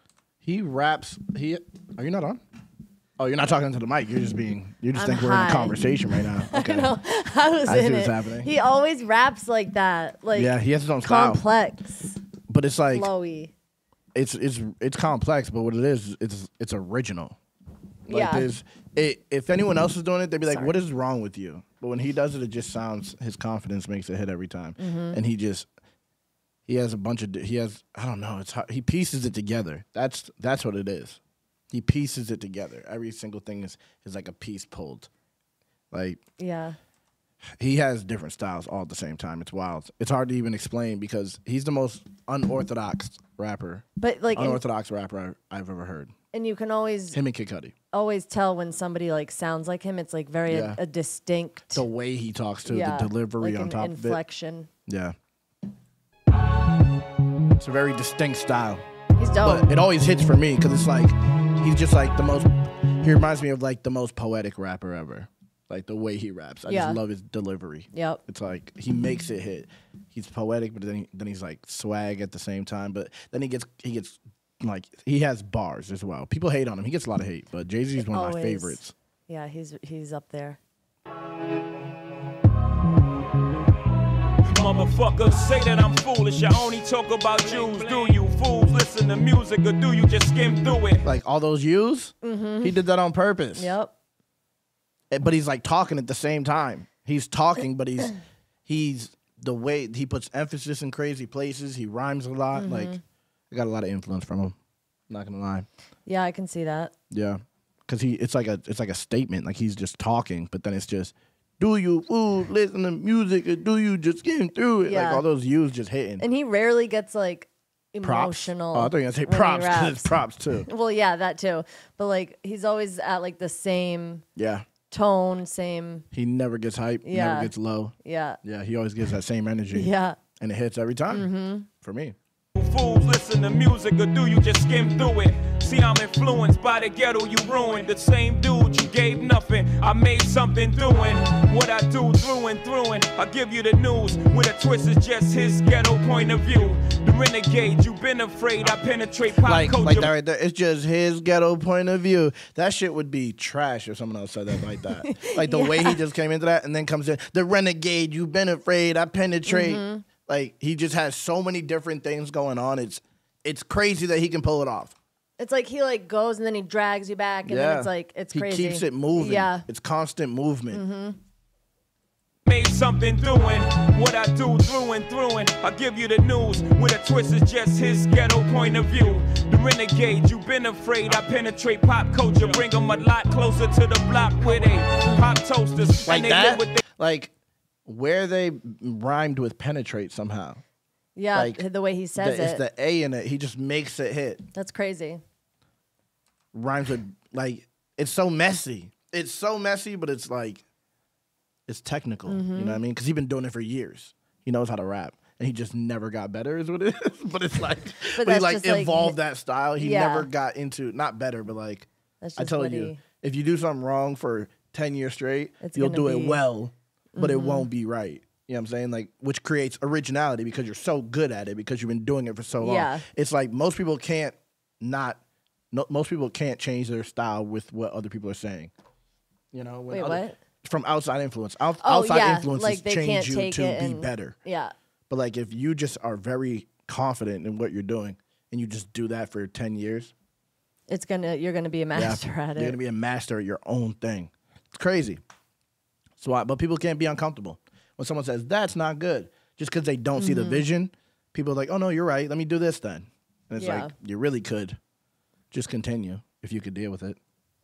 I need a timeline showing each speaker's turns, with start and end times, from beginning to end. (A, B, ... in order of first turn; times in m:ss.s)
0:00.4-0:02.4 A
0:03.2-0:06.9 A
0:05.0-0:12.2 B
0:07.7-0:08.5 A
0:10.3-0:11.4 A
0:12.5-0:13.1 A
0:12.9-0:13.5 B
0:14.2-0:17.4 A
0:18.1-0:25.7 A
0:18.1-0:18.5 B
0:24.8-0:25.2 B
0:26.7-0:31.2 A
0:31.7-0:35.1 A
0:35.9-0:36.2 A
0:36.4-0:36.8 B
0:37.6-0:46.1 A
0:44.0-0:44.6 B
0:46.3-0:47.2 B
0:47.1-0:47.7 A
0:47.9-0:51.8 B
0:50.5-0:50.8 A
0:51.7-0:54.2 A
0:52.6-0:54.7 B
0:54.9-0:55.2 A
0:57.6-0:58.8 A
0:59.2-0:59.7 B
0:59.4-1:18.9 A
1:06.7-1:07.0 B
1:07.9-1:08.2 B
1:18.0-1:20.6 B
1:24.5-1:31.0 C
1:31.0-1:33.8 A
1:32.2-1:32.8 B
1:33.6-1:33.9 B
1:35.1-1:38.2 A
1:38.7-1:42.9 A
1:42.5-1:43.0 B
1:43.5-1:44.6 A
1:45.1-1:45.7 A
1:46.1-1:46.9 B
1:47.1-1:56.2 A
1:54.8-1:55.2 B
1:56.2-2:04.2 B
1:58.0-2:00.7 A
2:04.4-2:04.7 A
2:04.9-2:06.1 B
2:06.1-2:12.2 A
2:07.0-2:07.5 B
2:08.0-2:08.4 B
2:09.7-2:10.2 B
2:11.1-2:11.7 B
2:12.6-2:30.1 C
2:29.4-2:45.0 A
2:35.0-2:36.0 B
2:39.5-2:40.0 B
2:45.4-2:49.6 B
2:47.4-2:50.8 A
2:50.7-2:51.2 B
2:52.4-3:06.8 C
3:05.0-3:05.3 B
3:06.1-3:07.3 A
3:07.9-3:10.6 A
3:11.2-3:12.6 B
3:11.3-3:11.6 A
3:12.2-3:14.4 A
3:14.5-3:15.2 B
3:16.5-3:20.6 A
3:21.7-3:45.2 A
3:22.3-3:22.8 B
3:28.2-3:29.2 B
3:29.8-3:30.3 B
3:32.2-3:33.0 B
3:35.6-3:36.4 B
3:37.2-3:37.7 B
3:42.6-3:43.0 B
3:45.7-3:48.7 A
3:49.5-3:54.4 A
3:49.9-3:50.4 B
3:51.8-3:54.7 B
3:55.1-4:00.1 A
4:00.9-4:02.8 B
4:02.0-4:05.2 A
4:06.2-4:14.8 A
4:10.2-4:10.6 B
4:13.6-4:13.9 B
4:15.5-4:17.2 A